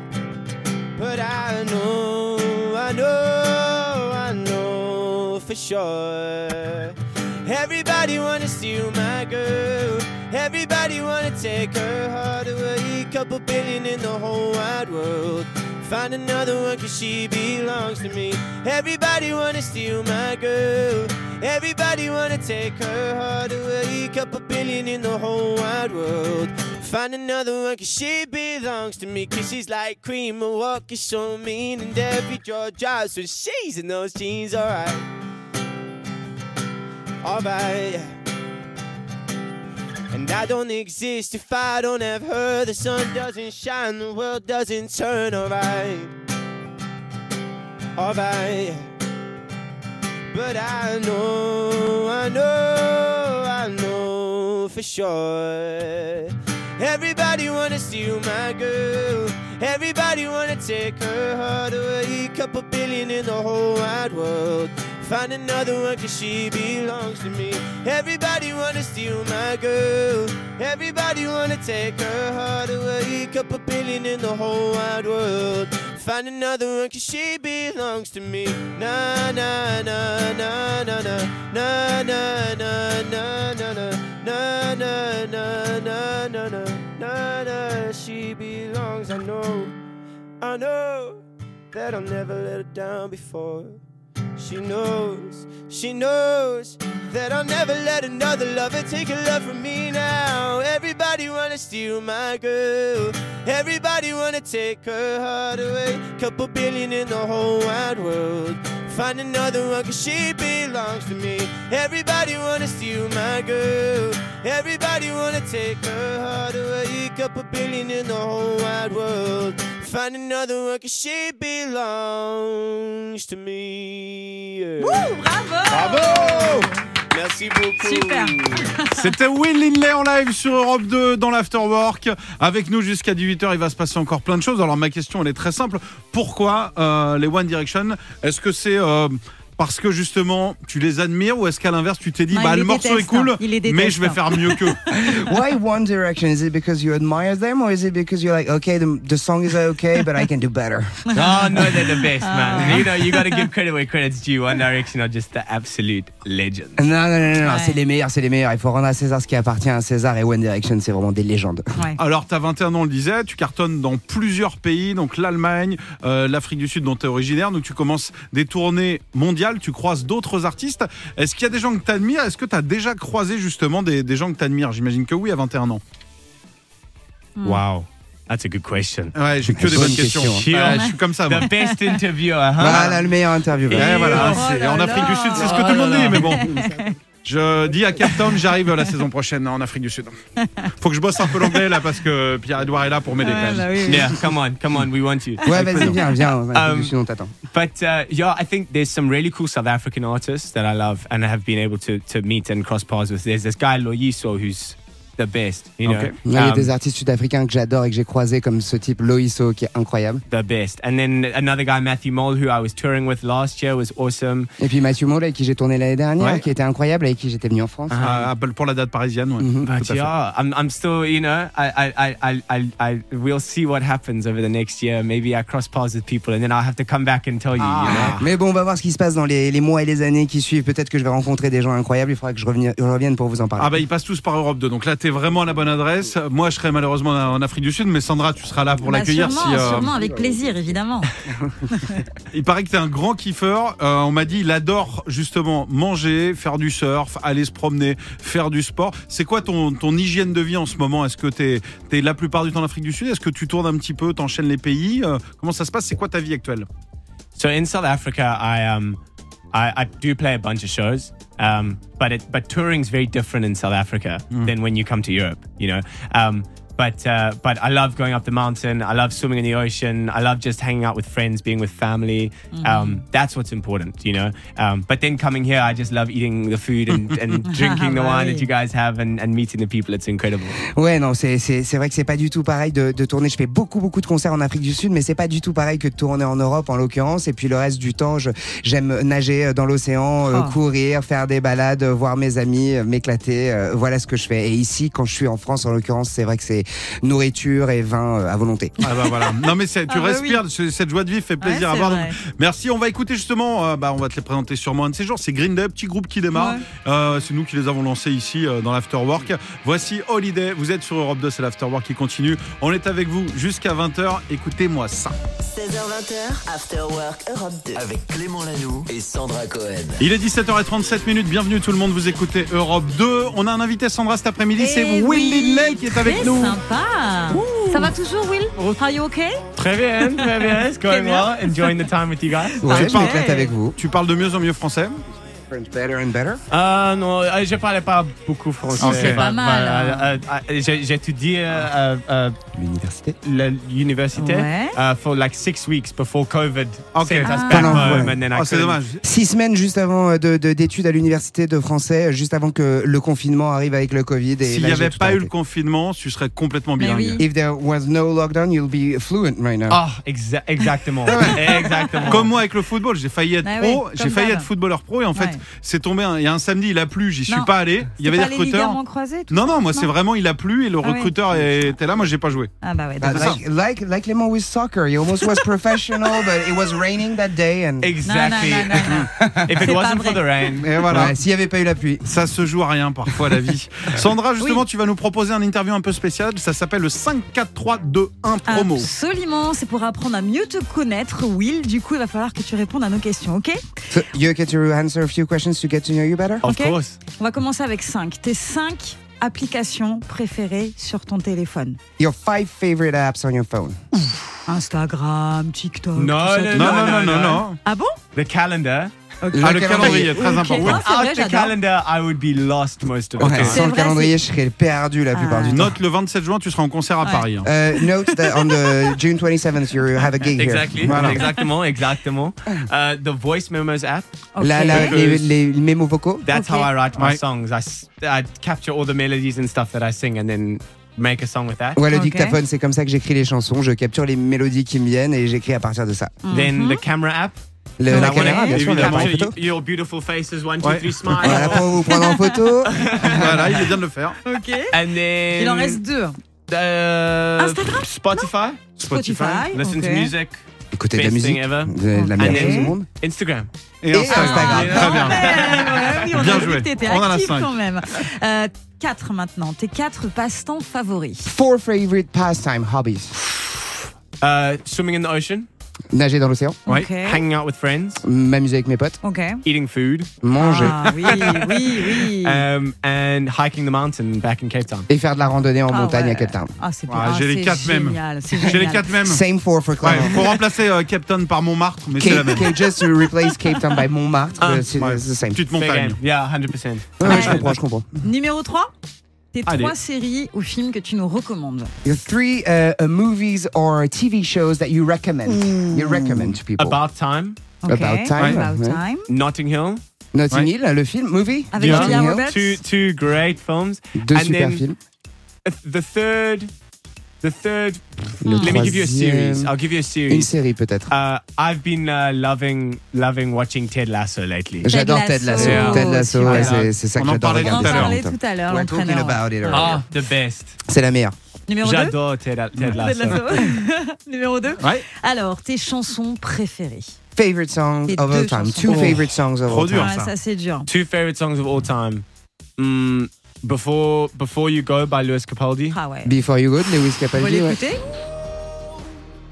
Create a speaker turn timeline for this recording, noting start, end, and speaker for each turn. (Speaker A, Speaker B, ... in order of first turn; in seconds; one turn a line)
Speaker A: 0.9-35.0
Speaker A: 37.2-38.1
Speaker A: 40.1-46.1
Speaker A: 48.0-48.9
Speaker A: 50.3-89.7
Speaker A: 90.4-93.8
Speaker A: 94.4-125.1
Speaker B: 124.8-126.7
Speaker A: 125.7-128.7
Speaker B: 127.8-129.1
Speaker C: 128.9-144.9
Speaker B: 142.3-145.2
Speaker D: 144.9-151.1
Speaker E: 151.1-156.9
Speaker B: 151.1-153.4
Speaker D: 156.8-161.7
Speaker B: 157.4-157.8
Speaker C: 162.0-175.8
Speaker E: 177.4-179.1
Speaker C: 179.1-181.5
Speaker D: 179.5-180.5
Speaker E: 180.3-183.0
Speaker B: 181.6-182.0
Speaker D: 182.6-184.1
Speaker C: 182.7-182.9
Speaker E: 183.7-184.5
Speaker C: 183.7-186.5
Speaker B: 183.8-187.0
Speaker E: 185.3-186.4
Speaker C: 187.2-190.2
Speaker B: 190.4-190.7
Speaker C: 190.8-194.1
Speaker B: 191.3-191.6
Speaker B: 193.2-194.2
Speaker E: 193.8-196.9
Speaker D: 195.4-197.3
Speaker C: 195.6-195.9
Speaker E: 197.5-206.7
Speaker C: 205.8-206.1
Speaker D: 206.2-210.2
Speaker E: 210.3-214.5
Speaker D: 214.6-218.0
Speaker E: 217.9-218.3
Speaker C: 218.0-220.1
Speaker D: 219.4-219.7
Speaker E: 219.6-228.2
Speaker C: 227.6-228.2
Speaker D: 227.8-233.8
Speaker C: 233.6-239.9
Speaker B: 238.8-241.1
Speaker D: 239.4-240.3
Speaker D: 241.3-241.7
Speaker B: 241.7-242.0
Speaker C: 242.3-256.7
Speaker E: 257.4-259.0
Speaker E: 259.5-280.6
Speaker B: 272.5-273.0
Speaker B: 277.4-278.5
Speaker D: 280.6-298.8
Speaker C: 298.8-315.2
Speaker B: 298.9-300.4
Speaker B: 301.4-302.2
Speaker B: 306.3-306.6
Speaker F: 315.4-317.8
Speaker G: 317.7-320.0
Speaker C: 320.0-326.6
Speaker B: 324.6-329.4
Speaker E: 327.3-327.9
Speaker E: 329.5-332.9
Speaker B: 330.0-331.9
Speaker B: 332.5-333.6
Speaker D: 332.6-333.8
Speaker C: 332.7-333.2
Speaker C: 333.7-335.0
Speaker D: 335.5-336.4
Speaker E: 336.5-342.4
Speaker B: 338.8-340.1
Speaker C: 338.8-339.2
Speaker D: 342.5-343.2
Speaker E: 343.2-348.8
Speaker B: 344.1-344.8
Speaker C: 346.9-349.0
Speaker B: 347.2-348.1
Speaker D: 347.5-348.2
Speaker D: 349.0-355.3
Speaker C: 354.4-357.2
Speaker B: 356.8-357.2
Speaker D: 357.2-359.8
Speaker E: 359.7-362.3
Speaker C: 361.1-361.4
Speaker B: 361.6-362.2
Speaker C: 362.1-368.8
Speaker B: 363.4-364.5
Speaker B: 365.1-365.4
Speaker B: 367.3-369.9
Speaker C: 369.3-372.5
Speaker B: 370.8-371.1
Speaker B: 372.6-373.4
Speaker D: 373.0-377.9
Speaker C: 373.1-373.4
Speaker E: 377.8-380.7
Speaker B: 378.0-380.5
Speaker D: 379.1-379.7
Speaker C: 380.6-381.1
Speaker D: 380.9-382.1
Speaker C: 382.1-388.9
Speaker B: 388.5-393.7
Speaker D: 393.9-396.4
Speaker E: 396.4-397.0
Speaker B: 396.4-401.8
Speaker D: 402.0-403.8
Speaker B: 404.5-408.0
Speaker E: 405.9-407.4
Speaker C: 406.5-407.6
Speaker E: 408.1-408.9
Speaker B: 409.2-411.6
Speaker D: 409.3-410.3
Speaker C: 409.4-410.8
Speaker E: 410.5-413.6
Speaker D: 413.2-415.7
Speaker C: 413.2-413.5
Speaker B: 413.5-414.1
Speaker B: 415.1-415.6
Speaker C: 415.5-417.5
Speaker B: 417.0-419.0
Speaker D: 417.4-421.2
Speaker E: 420.3-424.1
Speaker C: 420.8-421.2
Speaker B: 424.3-425.0
Speaker D: 424.4-426.3
Speaker E: 424.8-425.2
Speaker C: 424.9-425.2
Speaker E: 426.2-431.8
Speaker B: 426.3-426.7
Speaker D: 431.8-436.1
Speaker B: 431.9-432.4
Speaker B: 436.2-436.8
Speaker E: 436.3-441.8
Speaker D: 437.8-439.4
Speaker B: 437.9-438.5
Speaker C: 438.5-439.1
Speaker C: 440.6-441.2
Speaker D: 441.2-443.5
Speaker B: 441.3-442.5
Speaker E: 442.6-443.7
Speaker C: 443.1-444.2
Speaker B: 444.2-444.8
Speaker E: 444.7-445.8
Speaker B: 445.4-446.2
Speaker E: 446.5-450.4
Speaker B: 447.4-448.3
Speaker B: 448.8-450.1
Speaker C: 448.8-449.4
Speaker D: 450.7-452.9
Speaker E: 450.9-453.5
Speaker B: 451.9-452.7
Speaker C: 453.8-455.5
Speaker D: 453.9-455.0
Speaker B: 454.1-461.3
Speaker E: 454.3-456.4
Speaker C: 456.1-457.5
Speaker D: 461.2-463.1
Speaker E: 463.2-465.5
Speaker D: 465.9-466.6
Speaker B: 466.6-467.2
Speaker E: 466.9-468.0
Speaker D: 468.0-469.0
Speaker B: 469.0-469.4
Speaker E: 469.4-474.9
Speaker D: 470.2-471.1
Speaker B: 470.4-472.4
Speaker D: 474.9-476.5
Speaker B: 475.7-478.9
Speaker C: 476.9-479.2
Speaker D: 478.4-480.4
Speaker C: 479.8-482.5
Speaker D: 481.9-485.4
Speaker E: 484.4-484.7
Speaker C: 484.7-486.0
Speaker E: 485.5-487.5
Speaker D: 487.0-487.9
Speaker B: 487.0-487.4
Speaker B: 488.0-488.7
Speaker B: 489.3-491.7
Speaker C: 489.5-489.7
Speaker D: 491.8-496.8
Speaker E: 495.3-497.4
Speaker B: 497.6-499.1
Speaker D: 497.6-498.8
Speaker C: 498.1-498.4
Speaker E: 499.1-499.8
Speaker D: 500.1-502.3
Speaker B: 501.5-502.6
Speaker E: 501.6-504.6
Speaker D: 503.9-504.8
Speaker E: 505.4-506.5
Speaker E: 507.2-510.3
Speaker D: 508.2-509.5
Speaker B: 508.3-508.7
Speaker D: 510.1-510.9
Speaker E: 510.9-514.7
Speaker D: 514.6-519.8
Speaker B: 514.7-516.6
Speaker E: 515.3-516.7
Speaker C: 516.9-518.0
Speaker B: 517.4-519.5
Speaker E: 519.5-520.6
Speaker D: 520.6-521.1
Speaker B: 521.5-522.0
Speaker E: 521.6-523.2
Speaker C: 522.6-523.1
Speaker B: 522.7-526.9
Speaker D: 527.1-529.9
Speaker B: 527.9-529.0
Speaker C: 528.7-530.1
Speaker E: 528.7-529.0
Speaker B: 529.7-530.7
Speaker E: 530.7-532.0
Speaker E: 532.6-535.8
Speaker B: 535.7-536.1
Speaker D: 536.0-537.6
Speaker B: 537.1-537.8